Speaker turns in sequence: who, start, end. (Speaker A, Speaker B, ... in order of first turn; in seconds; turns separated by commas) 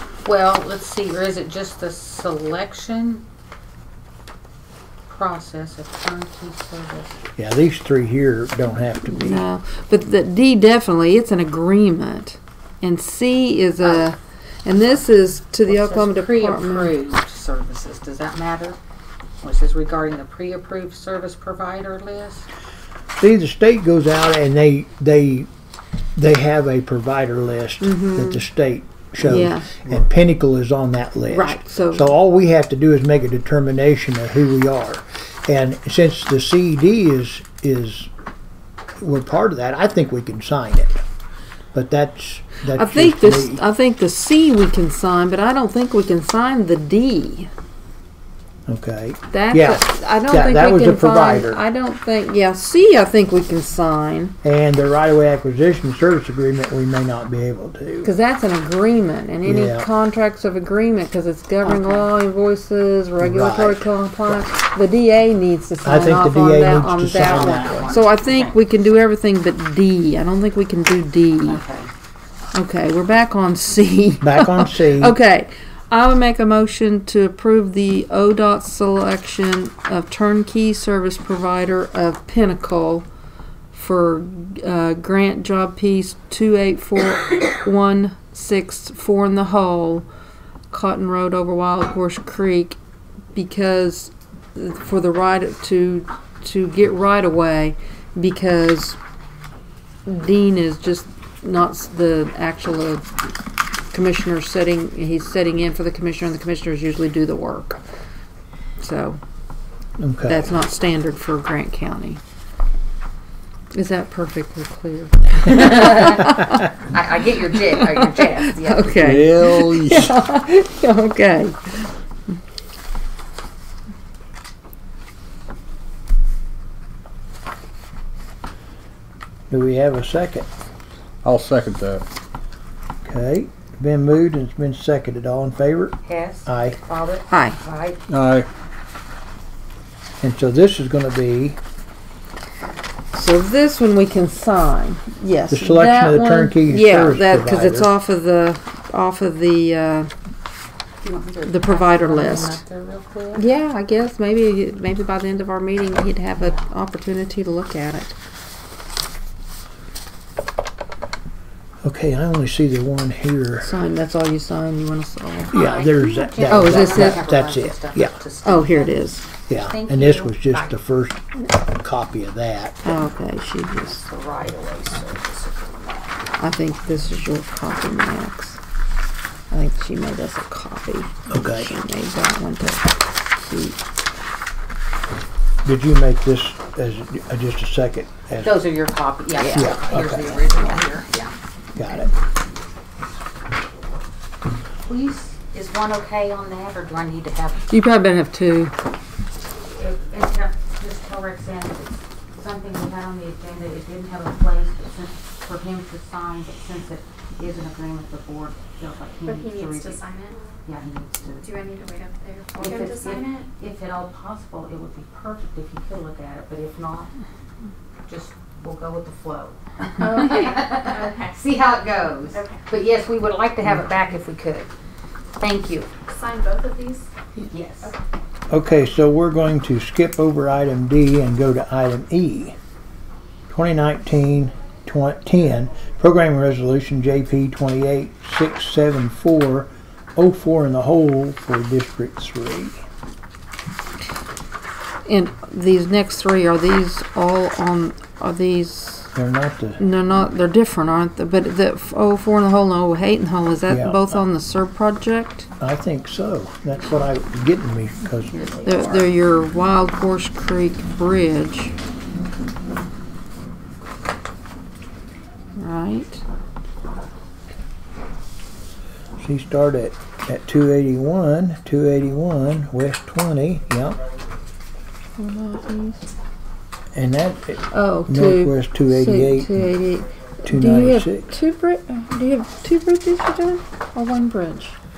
Speaker A: 0.2-3.2, Speaker A: 5.1-7.2, Speaker B: 7.4-9.5, Speaker C: 9.1-16.9, Speaker A: 13.8-14.1, Speaker A: 14.7-15.1, Speaker A: 15.6-18.8, Speaker A: 19.4-22.5, Speaker B: 23.2-25.5, Speaker B: 26.2-38.1, Speaker C: 27.8-28.4, Speaker C: 29.2-29.7, Speaker C: 31.3-32.1, Speaker B: 39.0-41.0, Speaker B: 41.7-43.6, Speaker C: 42.7-47.5, Speaker B: 48.7-51.6, Speaker C: 49.3-54.4, Speaker B: 54.4-58.1, Speaker C: 58.0-71.6, Speaker B: 59.4-59.9, Speaker A: 61.6-62.1, Speaker B: 63.2-63.9, Speaker B: 65.8-67.9, Speaker A: 67.1-68.6, Speaker A: 71.5-71.9, Speaker C: 72.5-83.1, Speaker B: 74.2-75.2, Speaker C: 83.7-90.1, Speaker C: 90.7-92.8, Speaker C: 93.3-99.0, Speaker C: 100.1-103.0, Speaker C: 103.9-107.8, Speaker C: 108.8-109.2, Speaker B: 110.0-110.5, Speaker C: 110.3-112.2, Speaker C: 113.7-116.7, Speaker A: 115.4-119.2, Speaker C: 117.8-121.9, Speaker D: 119.0-120.2, Speaker B: 129.5-130.5, Speaker D: 131.2-132.1, Speaker B: 133.0-136.8, Speaker A: 136.1-138.0, Speaker C: 137.3-137.6, Speaker D: 138.1-138.5, Speaker B: 140.2-141.6, Speaker C: 143.1-150.1, Speaker B: 145.5-147.9, Speaker A: 151.0-153.5, Speaker C: 151.5-152.6, Speaker C: 153.3-158.2, Speaker A: 156.4-156.7, Speaker B: 161.8-163.7, Speaker C: 163.6-165.6, Speaker B: 165.5-168.2, Speaker A: 165.5-170.7, Speaker C: 166.4-167.3, Speaker C: 168.4-169.2, Speaker B: 169.5-173.0, Speaker C: 172.8-174.1, Speaker A: 174.0-176.2, Speaker C: 176.4-178.6, Speaker C: 179.5-183.8, Speaker B: 181.3-181.7, Speaker B: 185.7-188.6, Speaker A: 188.4-191.3, Speaker C: 189.4-189.8, Speaker B: 189.5-190.4, Speaker B: 191.8-192.1, Speaker A: 194.9-197.7, Speaker C: 197.7-198.7, Speaker A: 199.7-210.0, Speaker E: 209.3-210.4, Speaker A: 210.7-211.6, Speaker E: 211.4-213.3, Speaker A: 212.6-217.1, Speaker A: 218.1-224.7, Speaker E: 220.0-221.1, Speaker A: 225.4-225.9, Speaker E: 226.1-227.1, Speaker A: 227.3-228.0, Speaker B: 228.5-232.6, Speaker B: 233.5-242.8, Speaker C: 245.1-249.1, Speaker B: 249.2-249.8, Speaker C: 249.8-255.5, Speaker B: 253.7-254.0, Speaker B: 255.6-259.1, Speaker C: 258.6-261.7, Speaker C: 265.6-266.2, Speaker B: 269.2-274.0, Speaker C: 275.2-276.0, Speaker B: 276.9-279.7, Speaker C: 277.7-284.8, Speaker B: 280.4-281.3